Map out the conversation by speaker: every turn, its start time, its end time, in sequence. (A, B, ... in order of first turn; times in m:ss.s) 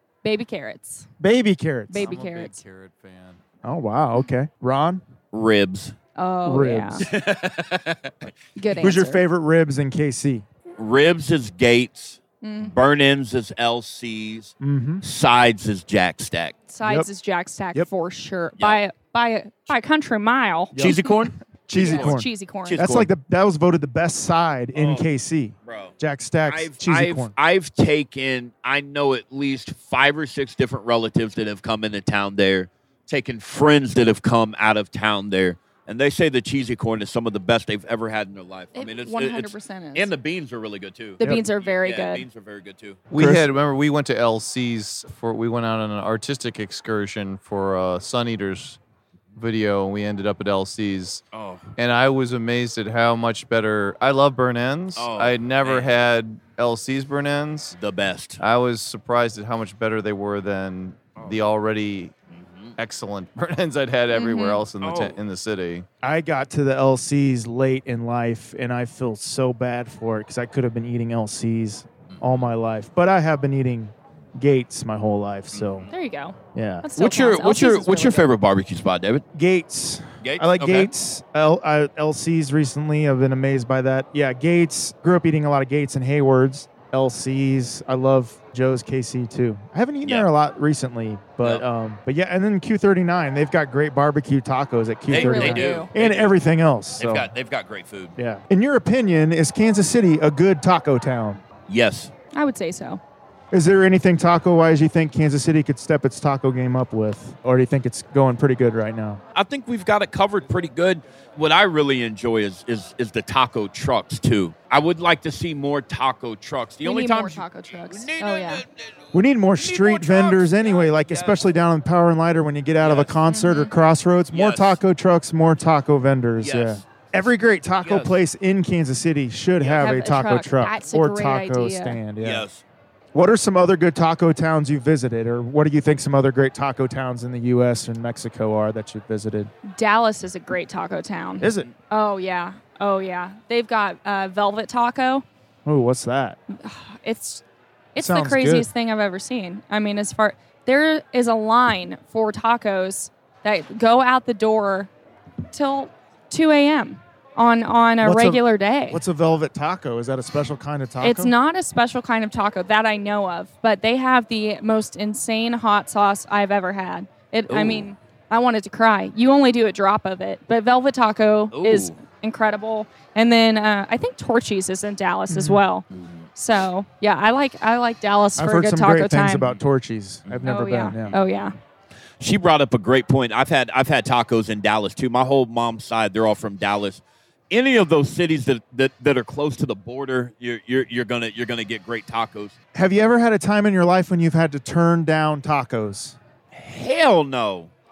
0:00.2-0:01.1 A
0:01.2-0:02.1 B
0:01.9-0:02.6 A
0:02.0-0:03.4 C
0:03.6-0:05.0 B
0:05.3-0:05.9 D
0:06.2-0:07.1 A
0:06.4-0:07.1 B
0:07.0-0:08.3 D
0:08.6-0:09.2 A
0:08.8-0:10.4 B
0:10.8-0:16.6 D
0:12.4-0:12.8 A
0:14.6-0:15.0 B
0:16.7-0:21.2 A
0:20.7-0:21.0 B
0:20.8-0:23.1 D
0:21.7-0:27.3 B
0:21.7-0:22.8 A
0:24.7-0:25.1 D
0:25.6-0:25.9 D
0:26.5-0:43.0 D
0:38.8-0:40.1 A
0:41.2-0:42.2 A
0:43.1-0:48.8 C
0:43.1-0:43.4 B
0:49.4-0:51.2 C
0:51.3-0:51.6 D
0:51.8-0:57.8 C
0:55.0-0:55.9 D
0:57.7-0:58.4 D
0:58.4-1:02.1 C
1:02.3-1:02.8 D
1:02.8-1:05.9 C
1:04.1-1:04.6 A
1:04.8-1:05.2 D
1:06.0-1:15.9 B
1:12.1-1:12.5 D
1:15.5-1:15.9 D
1:15.9-1:18.3 A
1:16.5-1:16.9 B
1:17.0-1:19.2 D
1:19.3-1:37.3 B
1:20.2-1:20.9 D
1:35.1-1:35.9 A
1:35.1-1:36.4 D
1:37.0-1:38.1 D
1:38.2-1:41.4 B
1:41.7-1:42.1 D
1:42.3-1:43.0 A
1:43.5-1:49.2 B
1:49.3-2:01.4 D
1:56.8-1:58.6 A
1:59.1-2:12.4 B
2:02.8-2:03.1 D
2:03.3-2:03.7 A
2:04.3-2:04.8 D
2:06.4-2:07.1 D
2:07.8-2:08.2 D
2:09.6-2:10.0 D
2:09.7-2:12.0 A
2:12.2-2:12.6 D
2:13.1-2:19.5 B
2:19.7-2:25.2 A
2:21.4-2:21.7 B
2:25.6-2:26.4 B
2:26.5-2:27.4 A
2:27.9-2:34.9 A
2:28.0-2:28.7 B
2:35.5-2:39.0 A
2:38.0-2:41.3 B
2:41.0-2:59.5 A
2:47.5-2:47.9 D
2:51.5-2:52.0 D
2:55.3-2:55.6 B
2:55.9-2:56.3 D
2:58.4-3:01.2 B
3:00.4-3:01.6 A
3:01.1-3:01.4 D
3:02.2-3:12.6 D
3:12.7-3:16.2 B
3:16.5-3:17.7 D